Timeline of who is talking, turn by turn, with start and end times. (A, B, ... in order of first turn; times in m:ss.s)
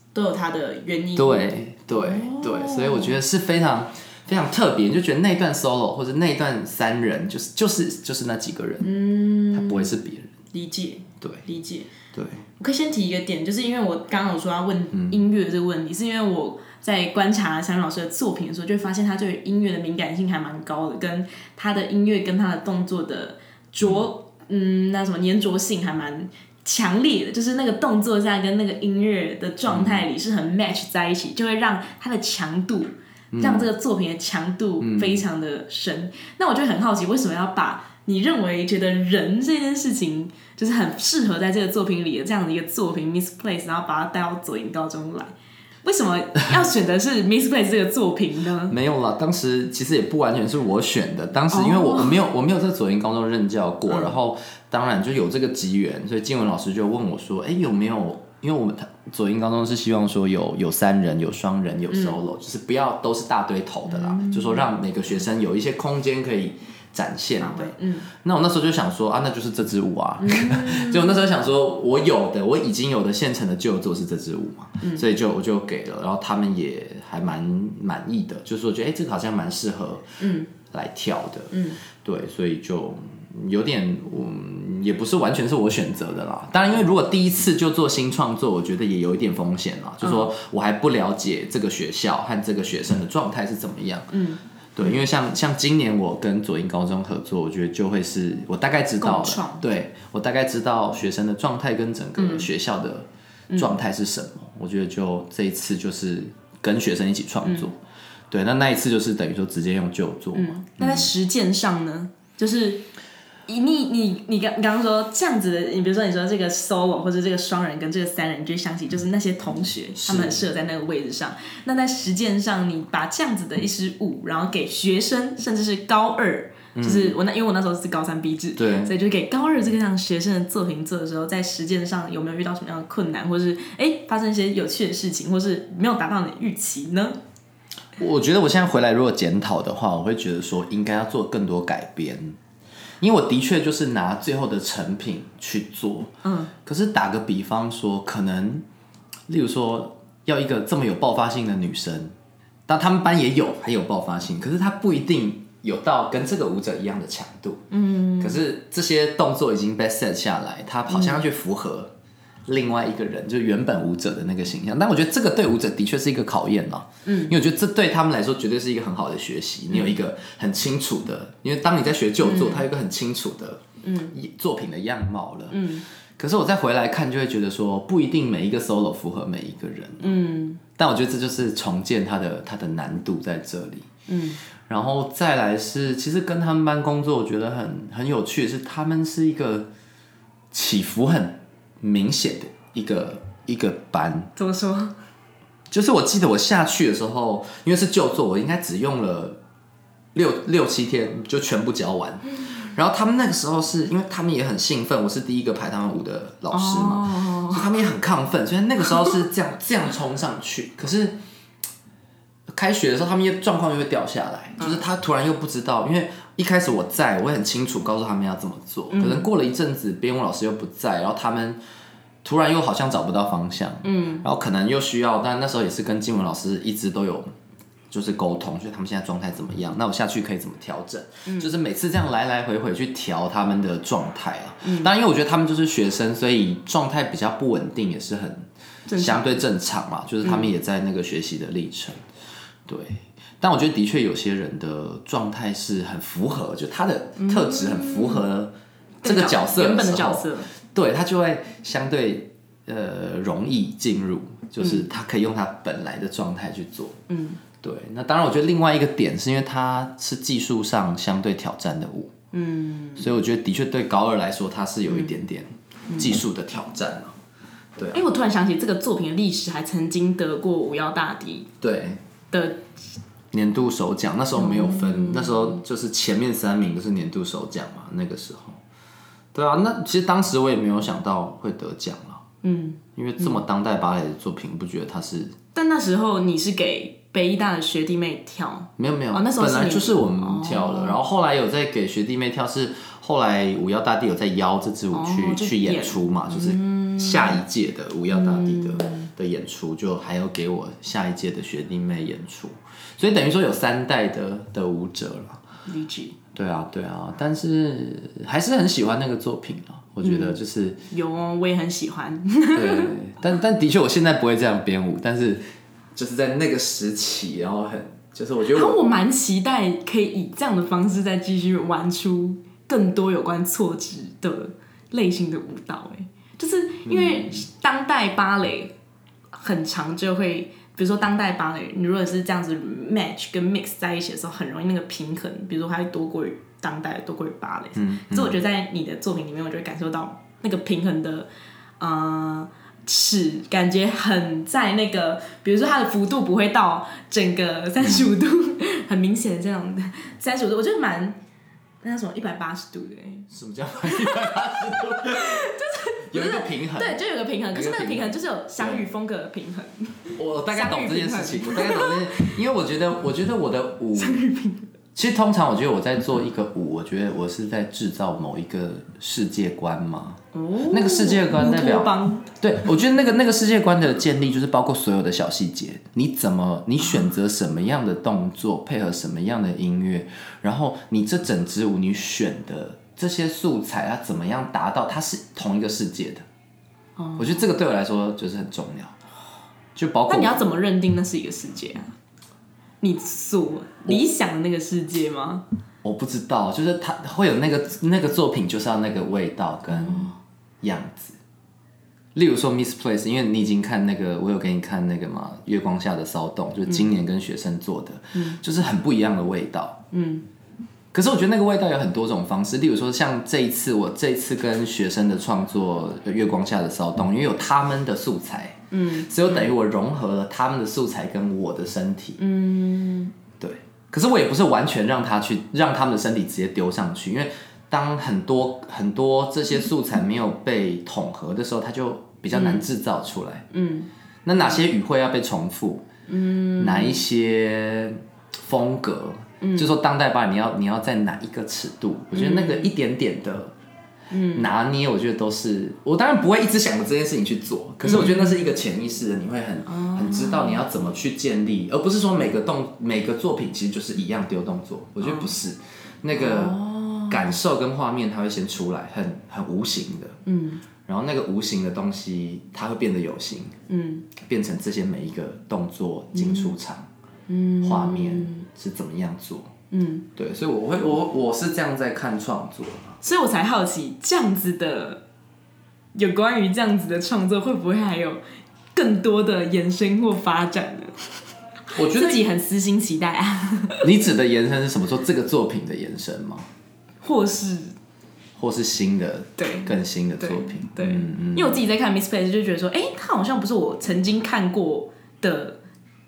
0:00.1-0:03.2 A
0:01.2-0:08.9 B
0:08.8-0:09.9 A
0:09.5-0:10.3 B
0:10.5-0:11.9 A
0:12.1-0:12.5 B
0:12.6-0:48.8 A
0:29.7-0:30.1 B
0:33.3-0:33.7 B
0:34.8-0:35.2 B
0:48.7-1:34.2 B
0:51.5-0:52.2 A
0:53.9-0:54.2 A
1:01.9-1:02.2 A
1:03.9-1:04.7 A
1:07.4-1:08.1 A
1:10.2-1:11.2 A
1:20.2-1:20.5 A
1:21.5-1:21.8 A
1:30.0-1:30.3 A
1:34.1-1:35.0 A
1:34.8-1:47.8 B
1:39.0-1:39.6 A
1:42.2-1:42.5 A
1:43.5-1:43.8 A
1:47.4-1:47.7 A
1:48.3-1:51.1 B
1:50.4-1:52.9 A
1:53.5-2:17.2 A
2:00.0-2:00.4 B
2:06.8-2:07.2 B
2:08.6-2:09.0 B
2:18.0-2:22.4 B
2:23.0-2:28.6 B
2:26.2-2:26.5 A
2:29.3-2:32.2 B
2:32.7-2:37.6 B
2:37.7-2:38.4 A
2:38.2-2:41.9 B
2:40.9-2:41.2 A
2:42.5-3:00.1 B
2:47.0-2:47.4 A
2:52.2-2:52.7 A
2:53.8-2:54.2 A
2:55.5-2:55.8 A
3:00.0-3:00.6 A
3:00.8-3:03.9 B
3:04.1-3:04.4 A
3:04.7-3:09.7 B
3:10.5-3:14.3 B
3:14.4-3:15.0 A
3:15.7-3:19.4 B
3:20.2-3:31.2 B
3:26.5-3:27.7 A
3:29.0-3:29.2 A
3:32.5-3:41.6 B
3:38.9-3:39.3 A
3:42.2-3:47.3 B
3:43.8-3:44.2 A
3:47.9-4:02.0 B
3:51.3-3:51.5 A
3:54.6-3:54.9 A
3:58.9-3:59.4 A
4:00.2-4:00.5 A
4:02.7-4:17.0 B
4:07.2-4:08.2 A
4:09.0-4:10.5 A
4:14.6-4:14.8 A
4:17.1-4:17.4 A
4:17.6-4:22.1 B
4:22.3-4:23.1 A
4:23.0-4:27.2 B
4:24.9-4:25.2 A
4:27.8-4:28.1 B
4:27.9-4:31.5 A
4:31.6-4:32.0 B
4:32.3-4:32.7 A
4:33.3-4:38.6 B
4:34.4-4:35.6 A
4:39.3-4:42.2 B
4:42.4-4:43.4 A
4:43.0-4:45.4 B
4:45.6-4:51.0 A
4:48.8-5:05.4 B
4:54.9-4:57.4 A
4:58.1-4:59.1 A
5:05.7-5:06.2 A
5:06.4-5:10.8 B
5:10.0-5:10.4 A
5:10.9-5:12.9 A
5:12.5-5:15.4 B
5:16.0-5:18.8 B
5:18.5-5:28.7 A
5:26.9-5:27.4 B
5:29.3-5:41.3 A
5:37.8-5:38.4 B
5:41.8-5:51.2 A
5:51.8-5:53.3 A
5:53.3-5:55.5 B
5:53.8-6:02.4 A
5:56.0-5:57.0 B
5:57.5-5:58.8 B
6:00.2-6:04.2 B
6:04.0-6:04.7 A
6:05.0-6:26.2 B
6:10.3-6:12.3 A
6:27.0-6:27.4 A
6:27.2-6:29.0 B
6:29.8-6:30.5 B
6:30.1-6:31.9 A
6:32.8-6:35.4 A
6:35.8-6:41.2 B
6:39.7-6:40.1 A
6:42.2-6:49.8 B
6:49.9-6:50.3 A
6:50.9-7:02.2 B
6:58.7-6:59.5 A
7:02.2-7:03.1 A
7:03.4-7:13.5 B
7:12.3-7:12.6 A
7:13.5-7:13.9 A
7:14.2-7:15.9 B
7:16.1-7:17.0 A
7:16.6-7:23.5 B
7:19.4-7:19.7 A
7:22.1-7:22.7 A
7:24.1-7:24.5 A
7:24.3-7:40.2 B
7:27.8-7:28.5 A
7:29.7-7:30.6 A
7:35.0-7:35.3 A
7:36.1-7:37.4 A
7:40.3-7:40.6 A
7:40.9-7:43.6 B
7:43.7-7:44.1 A
7:44.2-7:46.9 B
7:46.2-7:46.6 A
7:47.3-7:48.4 A
7:47.6-7:49.5 B
7:49.7-7:50.1 A
7:50.2-7:53.0 B
7:53.0-7:55.0 A
7:56.0-7:58.2 A
7:58.7-8:01.2 A
8:01.7-8:02.2 B
8:01.8-8:03.9 A
8:03.8-8:06.5 B
8:07.0-8:07.8 A
8:08.4-8:11.6 B
8:09.4-8:15.6 A